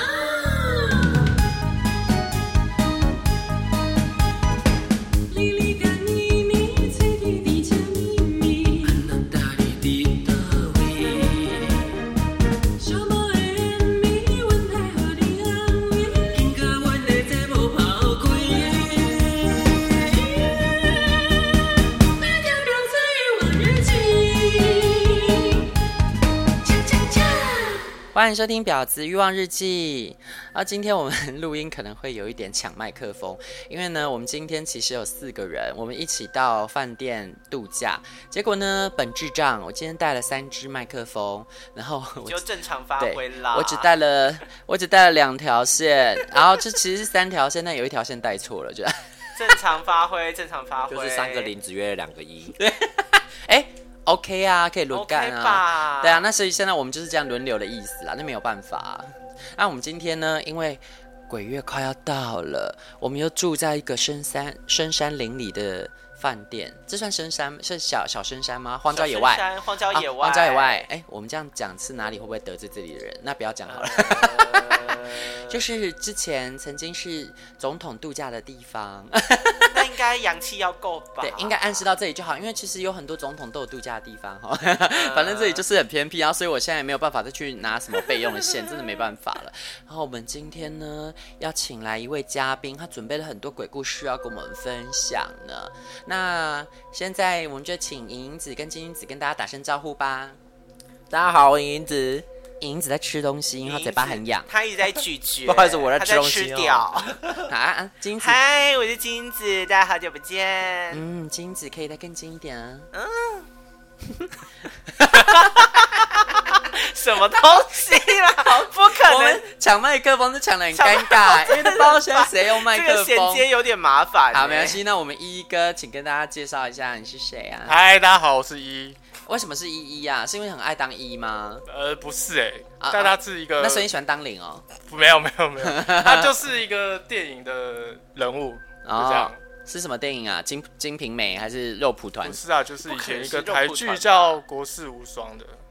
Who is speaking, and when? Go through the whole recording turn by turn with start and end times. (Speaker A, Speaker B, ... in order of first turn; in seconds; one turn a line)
Speaker A: 5.5-8.7
Speaker B: 6.9-7.8
Speaker C: 8.9-11.8
Speaker B: 12.8-13.7
Speaker A: 13.8-16.1
Speaker B: 14.4-14.9
Speaker C: 16.4-19.0
Speaker B: 22.8-24.0
Speaker A: 28.1-42.4
Speaker D: 42.3-43.9
Speaker A: 43.0-49.5
Speaker D: 49.4-51.5
Speaker C: 50.9-52.6
Speaker A: 52.6-79.8
Speaker D: 54.9-56.2
Speaker D: 68.9-70.8
Speaker D: 73.7-75.5
Speaker D: 79.7-81.8
Speaker A: 81.2-100.4
Speaker D: 84.9-85.6
Speaker C: 101.1-102.2
Speaker A: 102.6-104.5
Speaker D: 103.7-107.2
Speaker C: 105.5-107.4
Speaker A: 107.5-108.4
Speaker D: 108.2-111.0
Speaker A: 110.9-112.9
Speaker D: 112.9-113.5
Speaker A: 114.9-115.8
Speaker D: 115.1-119.4
Speaker A: 118.5-123.5
Speaker D: 120.7-124.8
Speaker A: 124.3-127.8
Speaker E: 127.7-129.0
Speaker A: 129.3-131.7
Speaker E: 131.7-133.9
Speaker A: 132.8-134.7
Speaker E: 134.8-139.4
Speaker A: 135.6-136.4
Speaker A: 138.8-142.4
Speaker E: 142.2-145.6
Speaker D: 142.9-144.4